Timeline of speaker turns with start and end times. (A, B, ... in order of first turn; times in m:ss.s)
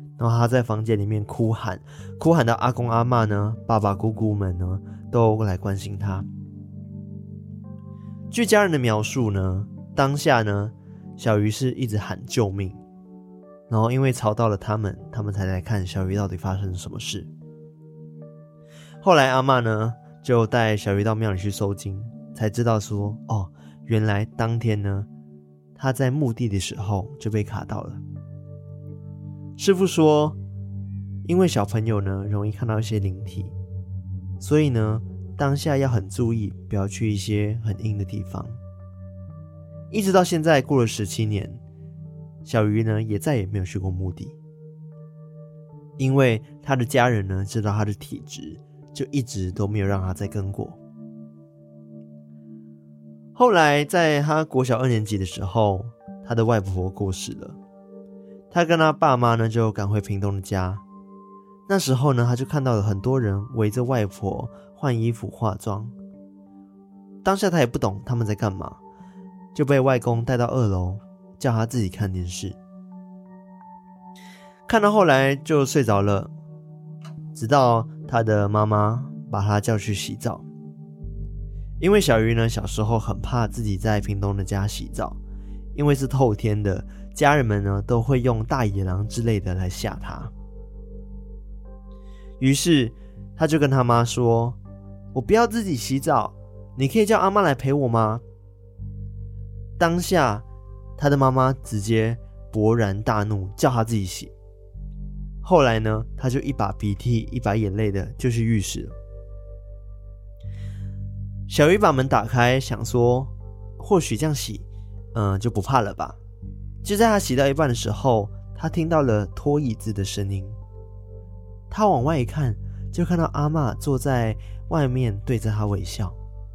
0:00.2-0:06.3 A
0:08.3-0:12.8 A
0:13.7-0:17.3 A
0:19.0-0:25.1 A
0:25.8-0:28.0 A
0:29.6-0:30.4 A
0:31.2-0:33.5 A
0:34.4-0:38.6 A
0:39.9-0:41.6 A
0:42.4-0:44.4 A
0:46.0-0:50.8 A
0:53.3-0:57.6 A
0:58.5-1:00.8 A
1:01.7-1:05.9 A
1:07.2-1:08.8 A
1:09.5-1:12.6 A
1:14.7-1:16.3 A
1:17.3-1:20.4 A
1:21.8-1:25.2 A
1:25.7-1:30.3 A
1:32.4-1:34.6 A
1:35.1-1:38.2 A
1:39.8-1:40.4 A
1:41.0-1:44.3 A
1:45.4-1:48.9 A
1:51.5-1:56.2 A
1:56.8-2:00.6 A
2:01.7-2:06.2 A